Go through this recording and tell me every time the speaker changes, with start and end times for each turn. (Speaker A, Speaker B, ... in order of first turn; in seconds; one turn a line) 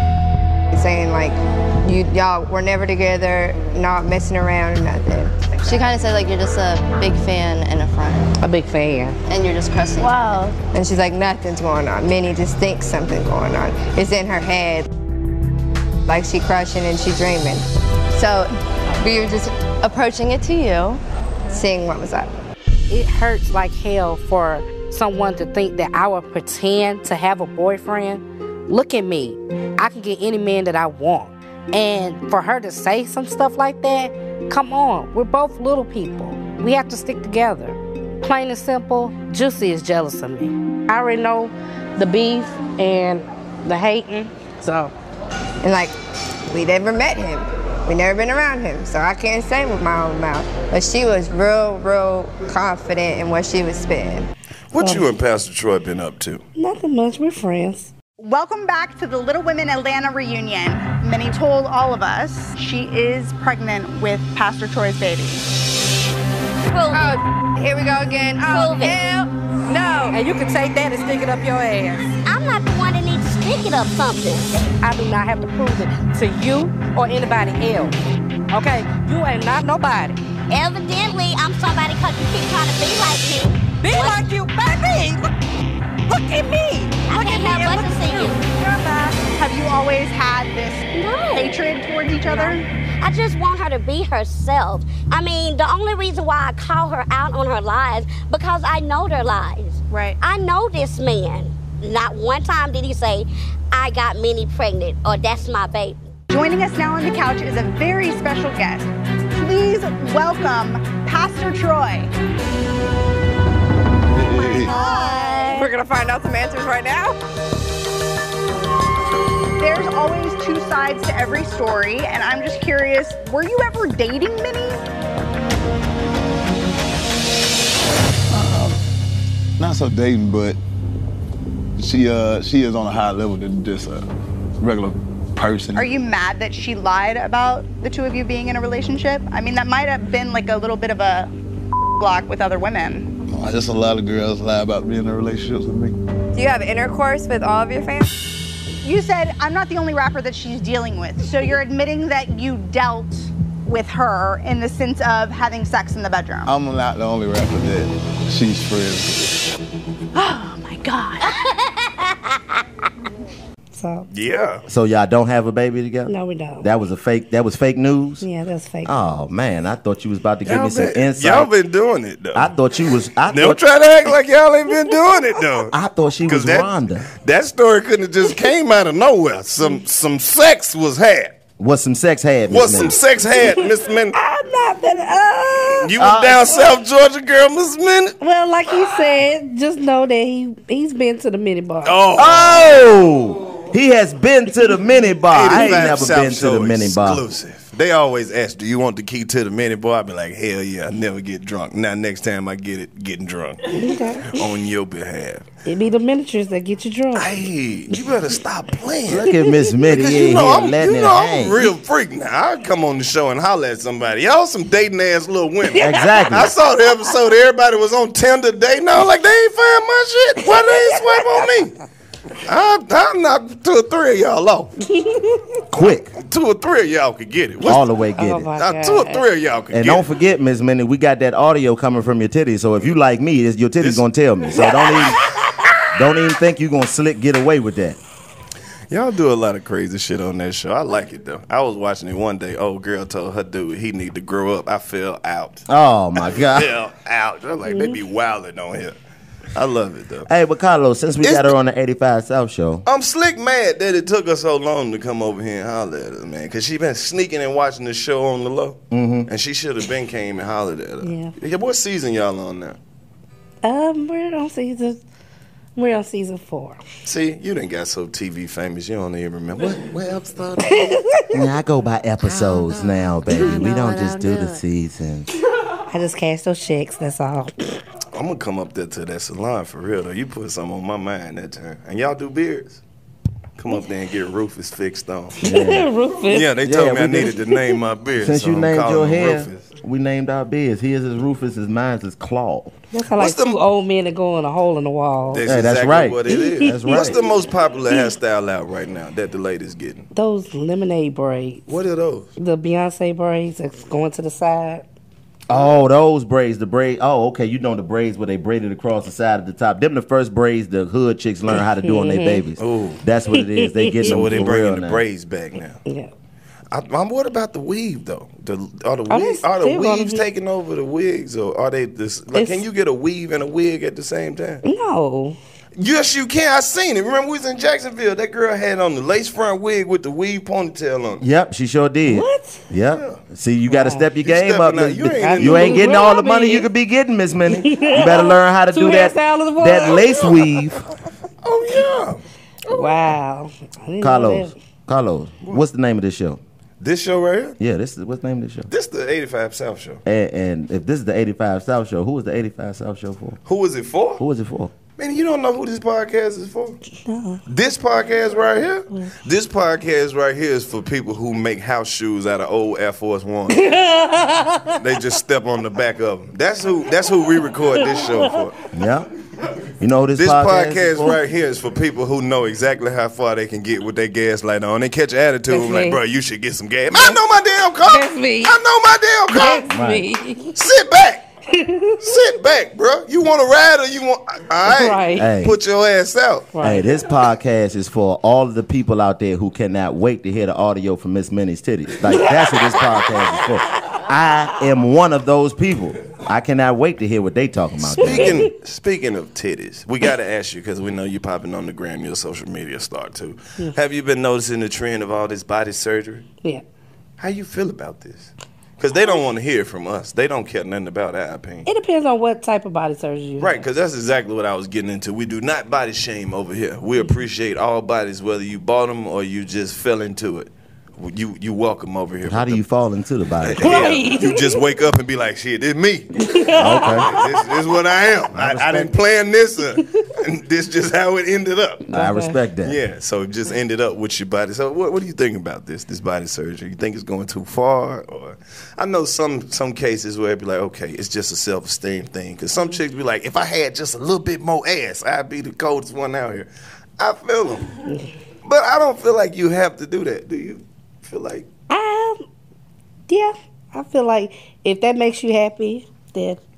Speaker A: 0.7-5.9
Speaker B: 5.6-8.3
Speaker C: 8.4-9.2
Speaker B: 9.3-10.2
Speaker D: 10.2-10.5
Speaker A: 10.7-14.9
Speaker A: 16.1-20.4
Speaker B: 19.8-21.0
Speaker A: 21.5-22.3
Speaker C: 22.9-44.9
Speaker A: 45.6-45.9
Speaker A: 46.5-54.3
Speaker E: 54.7-56.4
Speaker C: 54.8-55.1
Speaker C: 56.5-57.9
Speaker D: 58.2-65.4
Speaker F: 66.7-67.2
Speaker A: 66.9-70.2
Speaker F: 68.4-69.0
Speaker C: 70.1-72.0
Speaker F: 72.2-74.5
Speaker C: 74.8-78.0
Speaker C: 78.5-80.2
Speaker F: 80.5-84.3
Speaker C: 83.8-85.2
Speaker C: 86.1-89.2
Speaker F: 87.1-88.5
Speaker D: 89.3-92.7
Speaker F: 90.9-91.6
Speaker F: 93.0-106.1
Speaker D: 99.9-100.2
Speaker D: 106.3-112.1
Speaker G: 114.1-114.7
Speaker F: 114.7-115.6
Speaker D: 114.7-115.7
Speaker A: 114.7-117.2
Speaker D: 119.6-124.8
Speaker G: 128.3-128.8
Speaker G: 129.6-130.6
Speaker G: 131.8-134.1
Speaker G: 134.6-135.9
Speaker D: 135.7-141.3
Speaker D: 142.0-143.1
Speaker G: 143.3-145.9
Speaker A: 146.3-148.1
Speaker D: 148.8-156.5
Speaker G: 156.4-159.4
Speaker C: 160.2-161.3
Speaker C: 163.7-164.1
Speaker E: 164.1-164.6
Speaker H: 164.7-168.2
Speaker C: 166.1-166.7
Speaker C: 168.2-168.9
Speaker H: 168.8-171.5
Speaker E: 170.4-172.5
Speaker H: 172.3-173.6
Speaker E: 173.3-181.3
Speaker H: 175.7-177.1
Speaker H: 181.6-183.0
Speaker E: 182.5-184.2
Speaker C: 184.1-185.9
Speaker E: 185.8-188.2
Speaker H: 186.0-186.6
Speaker C: 188.2-192.0
Speaker E: 191.8-192.7
Speaker H: 192.2-197.2
Speaker E: 195.3-205.4
Speaker C: 203.7-204.4
Speaker C: 205.7-207.4
Speaker E: 207.1-209.3
Speaker H: 209.1-211.7
Speaker E: 209.9-221.8
Speaker C: 215.7-216.3
Speaker H: 215.8-216.5
Speaker C: 220.4-221.2
Speaker E: 222.4-224.8
Speaker C: 224.9-225.4
Speaker H: 225.7-226.1
Speaker E: 226.2-227.8
Speaker H: 227.6-228.5
Speaker C: 228.2-229.2
Speaker E: 228.6-230.0
Speaker H: 229.7-235.2
Speaker E: 233.8-234.0
Speaker H: 235.9-238.0
Speaker E: 238.9-245.7
Speaker H: 245.7-246.7
Speaker E: 246.2-248.9
Speaker C: 247.7-248.0
Speaker E: 249.5-250.3
Speaker H: 250.2-252.8
Speaker E: 251.2-251.5
Speaker E: 252.8-262.8
Speaker H: 258.9-259.3
Speaker C: 261.0-261.3
Speaker C: 263.6-265.0
Speaker C: 265.8-266.8
Speaker E: 267.0-270.9
Speaker C: 270.7-271.4
Speaker H: 271.3-275.3
Speaker C: 275.9-277.8
Speaker E: 278.1-282.8
Speaker E: 283.6-285.4
Speaker H: 285.4-285.9
Speaker C: 285.4-286.5
Speaker E: 286.3-289.7
Speaker H: 286.6-287.4
Speaker H: 288.2-292.7
Speaker C: 292.9-295.4
Speaker E: 293.2-293.6
Speaker E: 295.3-300.1
Speaker H: 295.4-297.2
Speaker C: 296.3-297.1
Speaker C: 300.1-301.6
Speaker E: 301.7-302.3
Speaker C: 302.4-304.8
Speaker H: 305.5-315.0
Speaker C: 311.8-312.4
Speaker E: 312.6-313.0
Speaker C: 313.3-314.1
Speaker E: 314.0-315.8
Speaker C: 315.9-316.1
Speaker E: 316.7-324.6
Speaker C: 319.1-320.2
Speaker C: 322.3-322.6
Speaker C: 324.6-325.4
Speaker E: 325.8-331.2
Speaker H: 331.2-340.8
Speaker C: 332.1-332.6
Speaker E: 332.9-333.2
Speaker C: 333.7-334.1
Speaker E: 334.2-335.9
Speaker C: 335.2-336.7
Speaker C: 337.5-340.3
Speaker E: 341.4-342.2
Speaker C: 342.7-344.5
Speaker H: 344.0-346.4
Speaker E: 346.8-347.6
Speaker H: 347.6-348.7
Speaker E: 348.7-350.0
Speaker H: 350.0-353.4
Speaker E: 353.4-354.2
Speaker H: 354.2-354.7
Speaker E: 355.0-356.8
Speaker C: 357.0-357.4
Speaker E: 357.5-363.7
Speaker C: 363.5-364.8
Speaker E: 364.8-368.6
Speaker C: 367.9-368.2
Speaker H: 368.7-369.1
Speaker H: 369.8-371.2
Speaker E: 370.1-379.6
Speaker C: 375.5-376.0
Speaker C: 376.9-377.2
Speaker C: 377.9-378.5
Speaker C: 379.3-380.5
Speaker H: 379.6-380.1
Speaker E: 380.5-381.2
Speaker C: 381.5-382.0
Speaker E: 382.0-386.5
Speaker C: 384.6-385.3
Speaker H: 385.1-385.6
Speaker C: 386.5-386.9
Speaker H: 386.6-398.4
Speaker C: 392.1-393.1
Speaker E: 398.0-406.2
Speaker C: 398.0-398.4
Speaker E: 407.2-411.7
Speaker C: 411.6-413.6
Speaker E: 413.4-422.6
Speaker H: 422.2-423.9
Speaker E: 423.4-431.9
Speaker C: 423.6-424.6
Speaker C: 426.2-427.2
Speaker H: 426.5-427.1
Speaker H: 428.3-428.9
Speaker H: 431.9-432.8
Speaker C: 431.9-432.4
Speaker E: 432.6-447.7
Speaker E: 448.4-451.5
Speaker C: 451.7-452.2
Speaker C: 453.1-456.4